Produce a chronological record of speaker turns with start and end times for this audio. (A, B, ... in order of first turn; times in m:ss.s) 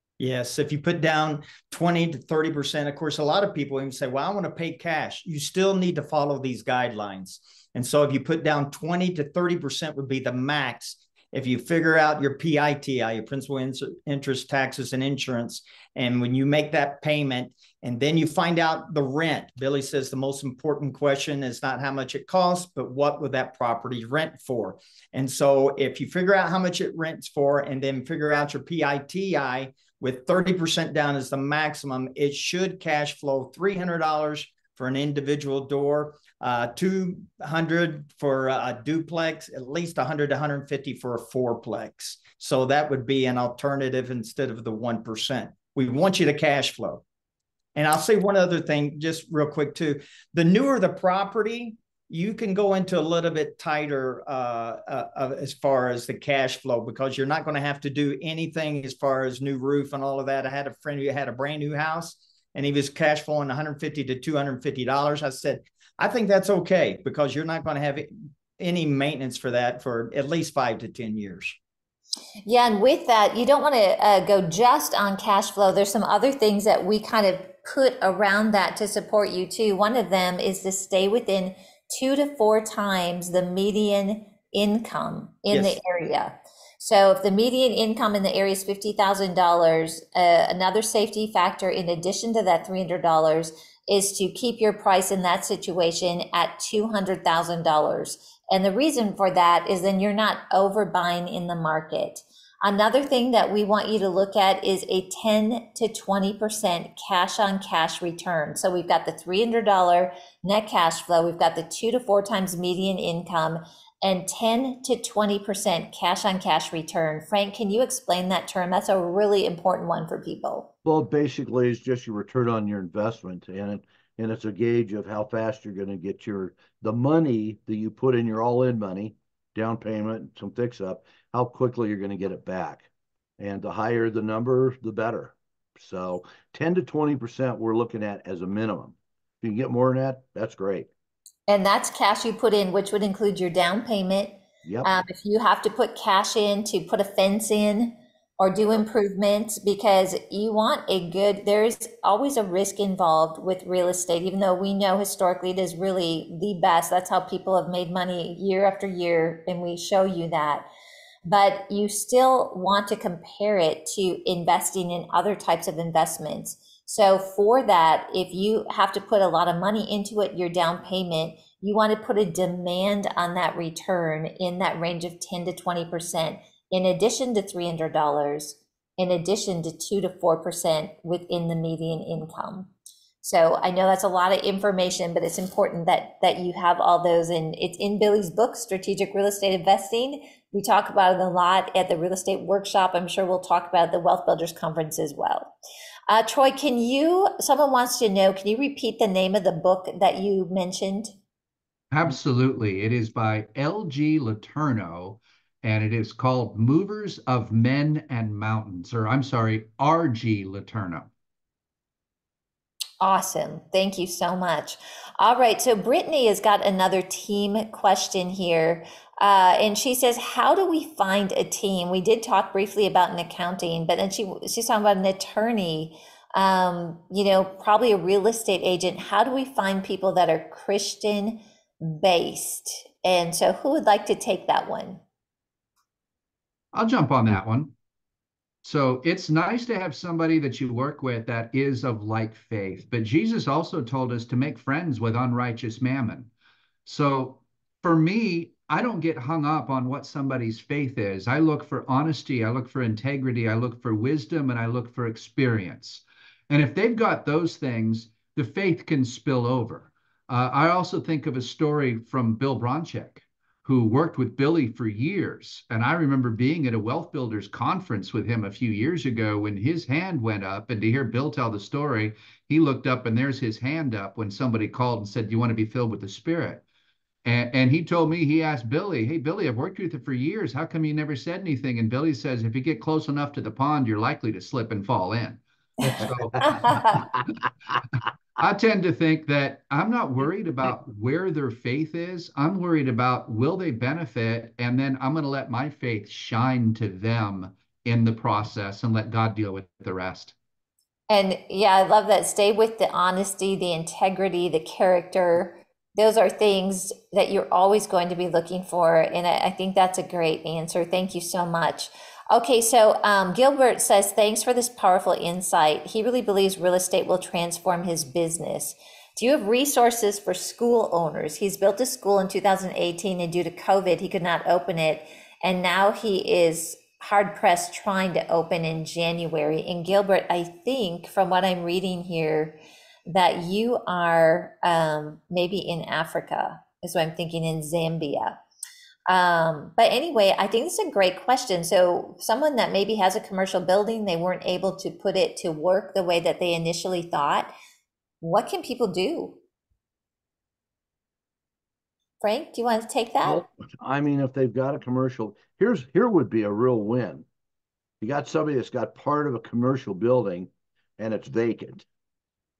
0:00.2-0:47.0 A
0:47.7-1:11.6 A
1:12.4-2:00.7 B
1:25.5-1:25.8 A
2:00.8-2:12.9 C
2:13.4-2:20.9 C
2:21.5-2:40.7 B
2:24.6-2:25.0 C
2:41.3-3:02.7 B
3:03.2-3:15.5 B
3:16.1-3:21.1 B
3:21.9-3:31.1 D
3:33.0-3:55.0 B
3:56.7-3:57.7 D
3:58.6-4:06.3 D
4:06.8-4:36.6 D
4:37.2-4:47.2 D
4:46.4-4:46.9 B
4:48.4-5:00.3 D
5:01.1-5:32.6 B
5:33.1-5:38.4 B
5:39.1-5:47.5 B
5:48.2-5:49.4 B
5:52.2-5:53.4 B
5:53.2-5:57.2 C
5:58.0-6:01.8 C